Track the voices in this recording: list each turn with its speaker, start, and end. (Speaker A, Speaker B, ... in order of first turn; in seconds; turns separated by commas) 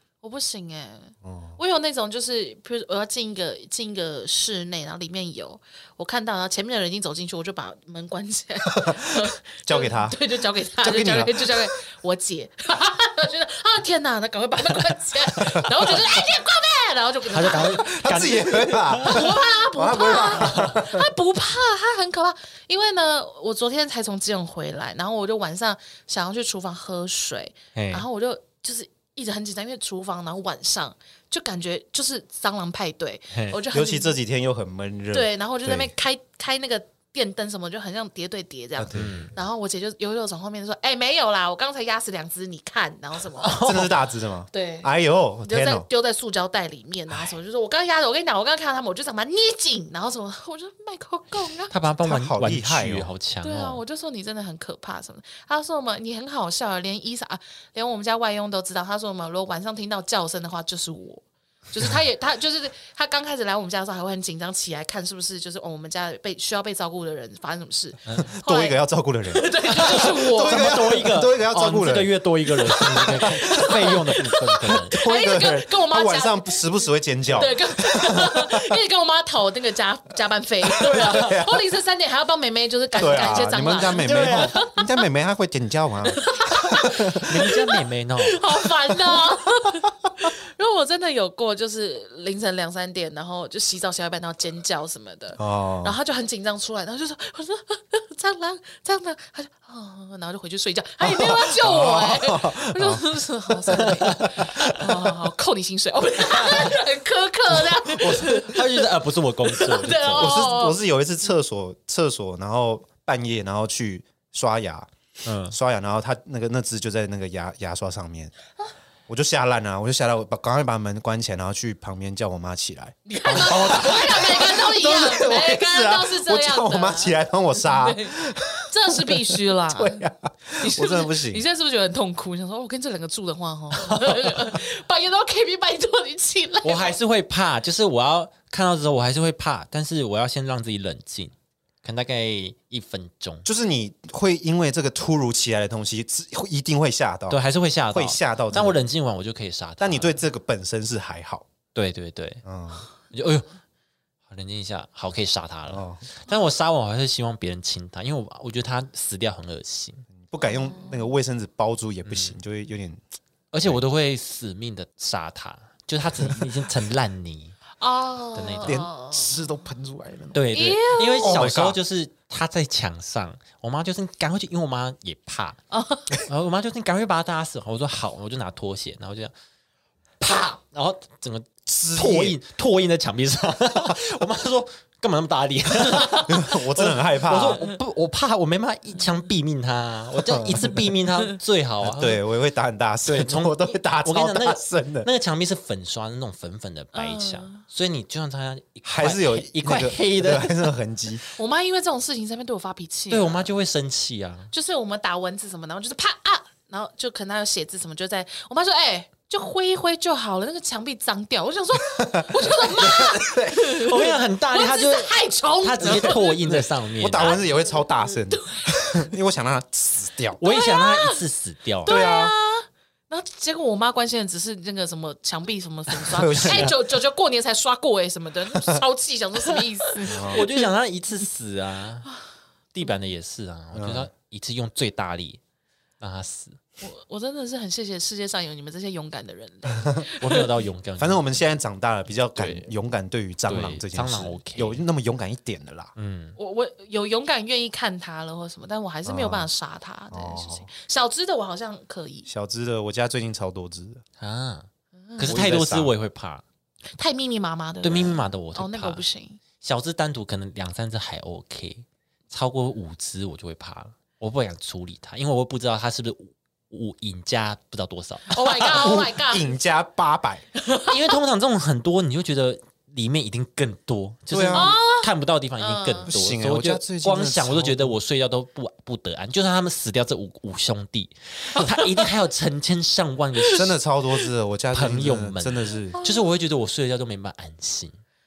Speaker A: 0.2-18.0, Speaker B: 1.2-1.6, Speaker B: 8.7-10.2, Speaker B: 10.8-11.7, Speaker C: 17.3-19.4, Speaker B: 17.5-21.1, Speaker A: 19.0-34.1, Speaker C: 20.3-20.8, Speaker C: 27.7-28.1, Speaker C: 33.3-33.6, Speaker B: 33.7-35.9, Speaker A: 35.1-43.6, Speaker B: 38.8-39.3, Speaker C: 38.9-39.3, Speaker C: 43.4-44.0, Speaker B: 43.5-45.9, Speaker A: 44.5-44.9, Speaker A: 45.4-51.7, Speaker C: 51.7-53.8, Speaker B: 52.0-53.1, Speaker A: 53.4-68.8, Speaker B: 68.2-72.2, Speaker A: 69.3-71.0, Speaker C: 69.7-75.0, Speaker A: 72.6-76.6, Speaker B: 72.8-78.7, Speaker A: 77.3-84.8, Speaker B: 80.7-81.6, Speaker B: 82.9-87.5, Speaker C: 83.8-84.6, Speaker A: 86.1-108.9, Speaker C: 87.1-88.4, Speaker B: 95.4-96.0, Speaker B: 101.0-104.5, Speaker C: 103.8-104.7, Speaker B: 107.5-108.5, Speaker C: 108.2-110.5, Speaker A: 109.4-110.8, Speaker B: 110.2-114.9, Speaker C: 115.2-115.5, Speaker B: 115.5-118.3, Speaker B: 119.1-131.4, Speaker A: 123.1-128.1, Speaker A: 128.7-130.1, Speaker A: 130.6-136.9, Speaker C: 136.6-143.4, Speaker B: 143.4-147.4, Speaker C: 147.3-150.2, Speaker B: 147.9-148.8, Speaker B: 149.8-151.4, Speaker C: 151.7-152.4, Speaker B: 152.4-152.9, Speaker C: 153.0-153.4, Speaker C: 154.3-160.1, Speaker B: 155.7-156.0, Speaker B: 160.2-163.0, Speaker A: 160.4-161.1, Speaker C: 162.1-162.3, Speaker C: 163.5-167.6, Speaker A: 167.8-169.3, Speaker C: 168.3-168.8, Speaker B: 168.6-170.4, Speaker C: 170.3-175.6, Speaker A: 170.5-171.4, Speaker B: 171.2-171.8, Speaker A: 175.7-176.1, Speaker C: 176.2-179.3, Speaker C: 180.2-192.2, Speaker B: 181.7-182.4, Speaker A: 185.9-186.3, Speaker B: 186.3-187.7, Speaker B: 190.2-190.9, Speaker B: 191.8-195.1, Speaker C: 193.0-200.7, Speaker A: 196.9-197.6, Speaker B: 198.8-201.2, Speaker A: 201.3-203.5, Speaker C: 203.1-204.5, Speaker A: 204.5-216.6, Speaker B: 211.9-213.7, Speaker C: 212.9-217.4, Speaker B: 215.8-220.4, Speaker A: 217.2-219.1, Speaker C: 220.4-222.0, Speaker A: 220.4-221.2, Speaker A: 221.8-230.7, Speaker B: 221.8-222.3, Speaker B: 226.1-226.8, Speaker C: 226.2-226.7, Speaker B: 228.5-228.8, Speaker C: 230.1-232.1, Speaker B: 230.1-230.4, Speaker C: 232.7-235.4, Speaker B: 233.7-234.1, Speaker C: 236.0-236.6, Speaker A: 236.8-240.6, Speaker C: 240.2-241.2, Speaker B: 241.0-245.9, Speaker C: 242.3-242.7, Speaker C: 243.5-244.8, Speaker C: 245.9-246.4, Speaker A: 246.4-252.3, Speaker B: 249.0-249.5, Speaker B: 250.1-250.7, Speaker B: 252.3-254.0, Speaker C: 254.2-256.4, Speaker B: 255.2-255.9, Speaker A: 256.9-259.4, Speaker C: 257.8-259.0, Speaker C: 259.6-268.9, Speaker A: 268.3-269.5, Speaker B: 268.6-270.4, Speaker A: 270.6-270.9, Speaker C: 270.8-283.7, Speaker B: 274.3-274.7, Speaker A: 274.5-276.1, Speaker B: 276.1-278.0, Speaker A: 281.5-282.1, Speaker B: 283.5-286.0, Speaker C: 284.7-288.0, Speaker A: 285.9-286.3